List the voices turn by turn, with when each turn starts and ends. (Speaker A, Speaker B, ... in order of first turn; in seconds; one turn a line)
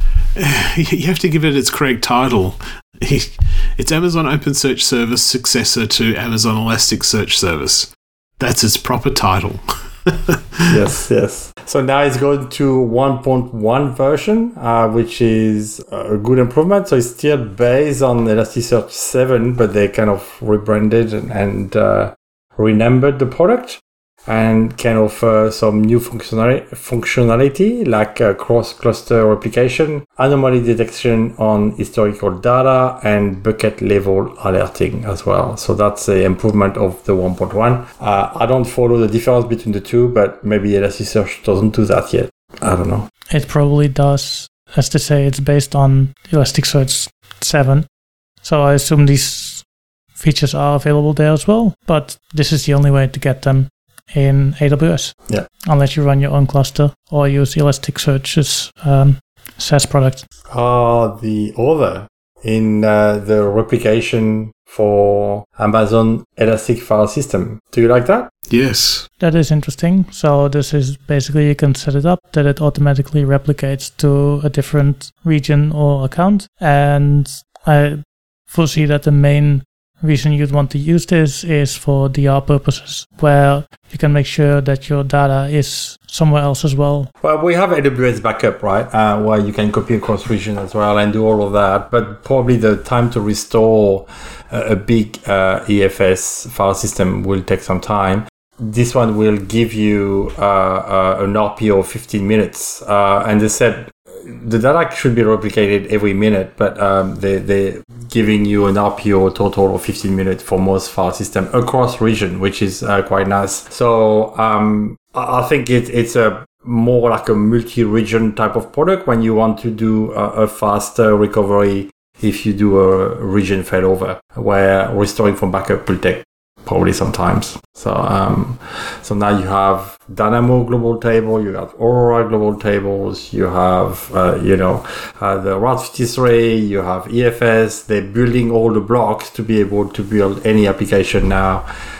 Speaker A: 0.4-10.3
Speaker B: 10.7-43.1
Speaker C: 43.3-47.9
Speaker C: 48.4-60.2
Speaker B: 60.5-68.3
Speaker A: 68.5-69.1
Speaker C: 69.2-87.1
Speaker B: 87.2-141.7